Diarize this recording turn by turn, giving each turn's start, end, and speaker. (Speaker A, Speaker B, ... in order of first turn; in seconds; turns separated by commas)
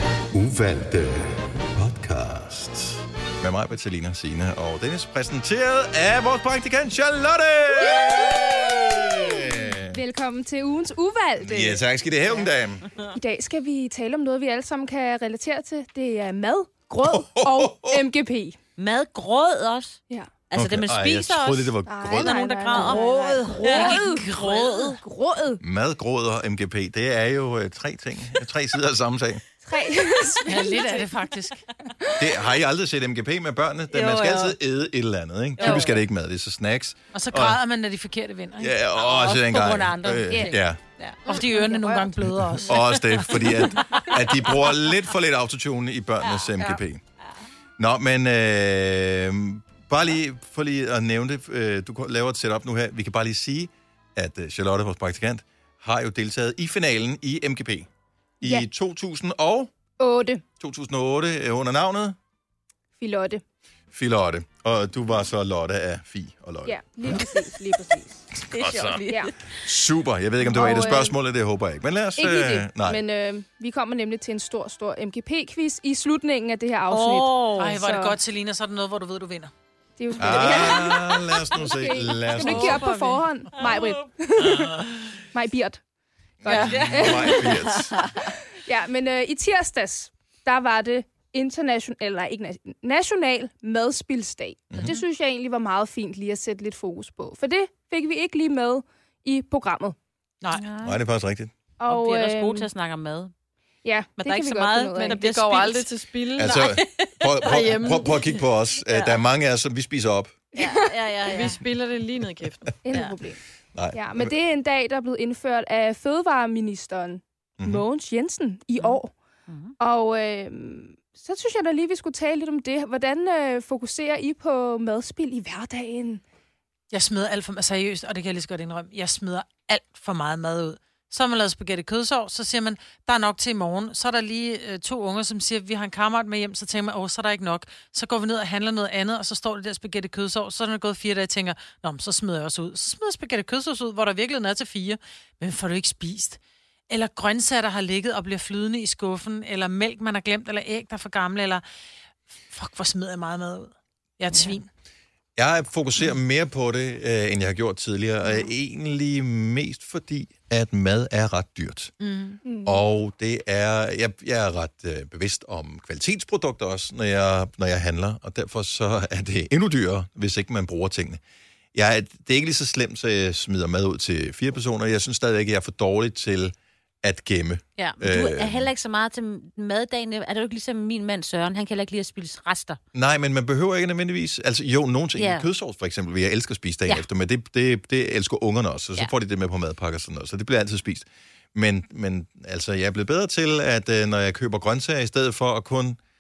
Speaker A: 0.3-10.0, Speaker B: 7.8-11.8, Speaker A: 11.4-12.9, Speaker B: 13.1-18.6, Speaker A: 17.0-18.1, Speaker C: 18.8-20.0, Speaker C: 20.5-25.0, Speaker A: 20.5-22.4, Speaker B: 21.9-25.6, Speaker D: 22.7-24.8, Speaker A: 25.6-29.4, Speaker B: 29.6-31.1, Speaker D: 30.5-31.6, Speaker A: 32.2-37.6, Speaker C: 33.9-34.6, Speaker C: 35.6-36.0, Speaker D: 37.1-38.8, Speaker A: 38.6-40.8, Speaker C: 39.0-41.2, Speaker D: 41.2-43.6, Speaker B: 41.3-42.1, Speaker A: 42.5-47.0, Speaker A: 47.8-57.9, Speaker A: 58.4-59.7, Speaker B: 60.0-60.4, Speaker A: 60.6-62.2, Speaker B: 63.0-63.4, Speaker A: 63.9-67.2, Speaker B: 66.7-68.2, Speaker A: 68.5-73.0, Speaker C: 68.5-69.5, Speaker B: 69.1-69.3, Speaker B: 70.4-71.2, Speaker B: 72.2-78.2, Speaker C: 76.9-77.8, Speaker D: 77.6-79.5, Speaker B: 80.0-84.8, Speaker A: 80.2-82.9, Speaker E: 82.4-83.2, Speaker B: 85.3-85.8, Speaker A: 86.4-88.0, Speaker D: 86.5-87.3, Speaker B: 86.8-87.5, Speaker E: 87.5-88.1, Speaker B: 88.2-100.0, Speaker A: 94.7-95.0, Speaker D: 100.4-100.7, Speaker C: 100.5-101.0, Speaker A: 100.8-101.5, Speaker B: 101.8-102.7, Speaker C: 101.9-103.3, Speaker B: 103.8-105.2, Speaker C: 104.2-107.9, Speaker E: 105.0-106.7, Speaker A: 106.4-110.4, Speaker E: 107.4-108.4, Speaker C: 108.9-109.2, Speaker B: 110.5-110.9, Speaker C: 110.5-111.6, Speaker E: 111.2-112.8, Speaker B: 112.8-113.4, Speaker A: 113.7-114.3, Speaker B: 113.9-119.1, Speaker C: 119.5-119.7, Speaker B: 119.8-126.2, Speaker D: 126.9-151.6, Speaker D: 152.5-154.7, Speaker A: 155.4-161.9, Speaker D: 162.0-162.4, Speaker B: 162.4-162.8, Speaker A: 162.7-171.2, Speaker A: 171.7-178.7, Speaker C: 177.8-182.8, Speaker A: 182.9-196.0, Speaker C: 185.2-185.5